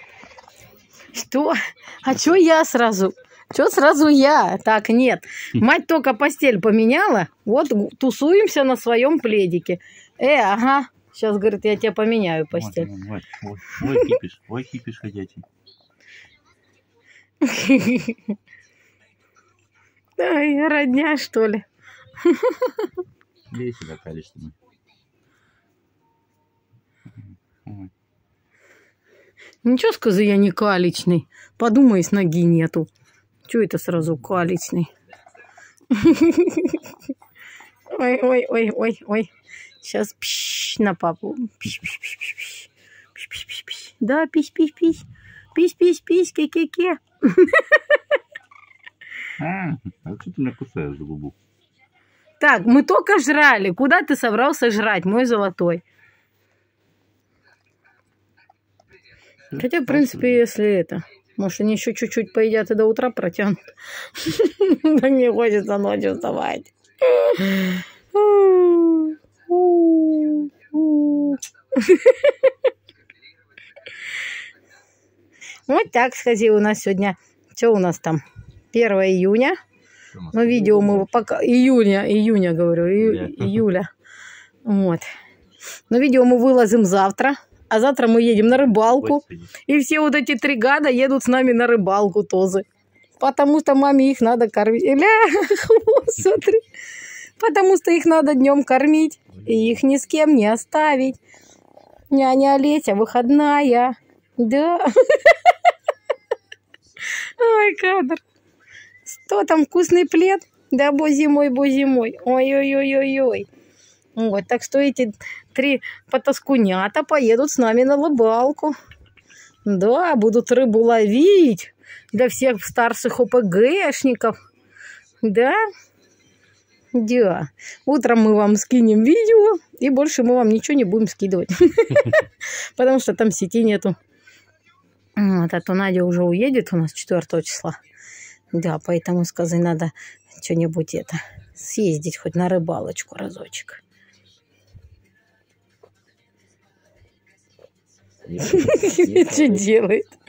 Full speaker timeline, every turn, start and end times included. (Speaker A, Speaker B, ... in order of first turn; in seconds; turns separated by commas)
Speaker A: 1.1-12.9, Speaker B: 12.5-15.4, Speaker A: 17.4-18.3, Speaker A: 20.2-21.6, Speaker A: 22.2-22.9, Speaker B: 23.5-24.6, Speaker B: 27.6-27.9, Speaker A: 29.6-32.9, Speaker A: 33.5-34.9, Speaker A: 35.9-36.9, Speaker A: 37.9-39.3, Speaker A: 39.8-48.0, Speaker B: 49.4-51.3, Speaker A: 52.4-55.8, Speaker B: 59.5-60.4, Speaker A: 59.5-72.5, Speaker A: 75.7-79.6, Speaker B: 80.1-81.1, Speaker A: 80.3-83.9, Speaker B: 83.0-83.6, Speaker A: 84.6-85.1, Speaker A: 85.9-92.6, Speaker B: 88.6-89.5, Speaker A: 93.2-96.6, Speaker A: 97.4-101.2, Speaker B: 99.4-99.7, Speaker A: 102.1-105.7, Speaker A: 107.0-108.2, Speaker A: 109.0-113.5, Speaker A: 114.2-118.7, Speaker A: 119.6-124.3, Speaker A: 125.2-125.6, Speaker A: 126.9-133.9, Speaker A: 135.2-137.8, Speaker A: 138.5-143.8, Speaker B: 148.2-149.7, Speaker A: 148.4-150.2